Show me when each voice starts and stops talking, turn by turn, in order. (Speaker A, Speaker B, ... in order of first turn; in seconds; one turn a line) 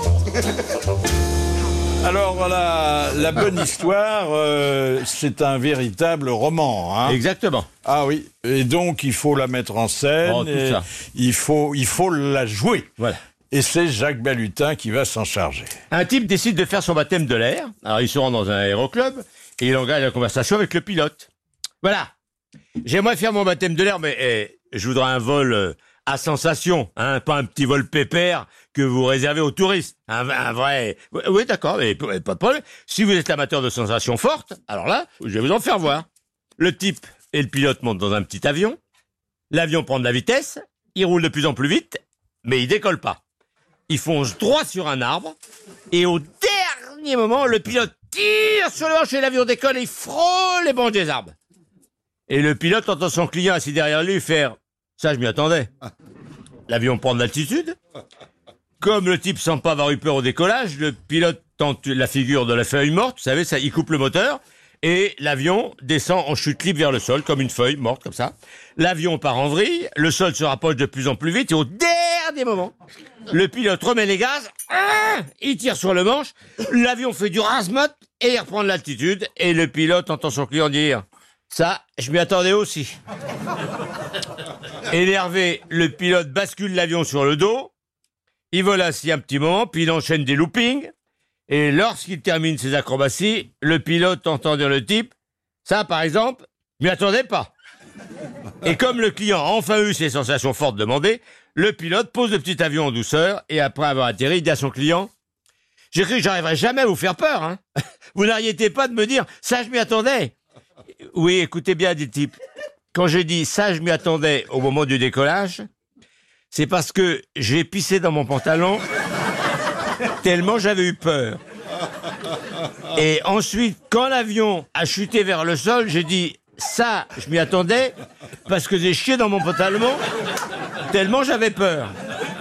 Speaker A: 2.0-7.2
Speaker B: 7.0-7.7
Speaker A: 7.8-12.9
Speaker B: 10.2-10.8
Speaker A: 13.5-15.7
Speaker B: 15.9-21.3
Speaker B: 21.8-22.1
Speaker B: 22.8-36.1
Speaker B: 36.6-38.8
Speaker B: 39.5-43.2
Speaker B: 43.9-45.4
Speaker B: 45.9-51.3
Speaker B: 52.3-55.7
Speaker B: 56.7-57.8
Speaker B: 58.8-72.7
Speaker B: 73.3-83.0
Speaker B: 84.9-87.7
Speaker B: 88.5-90.9
Speaker B: 91.5-95.1
Speaker B: 95.7-97.5
Speaker B: 98.6-105.1
Speaker B: 105.9-107.6
Speaker B: 108.2-110.3
Speaker B: 111.1-112.3
Speaker B: 112.9-115.7
Speaker B: 116.5-118.8
Speaker B: 120.2-121.4
Speaker B: 123.0-127.9
Speaker B: 128.5-130.0
Speaker B: 130.9-131.9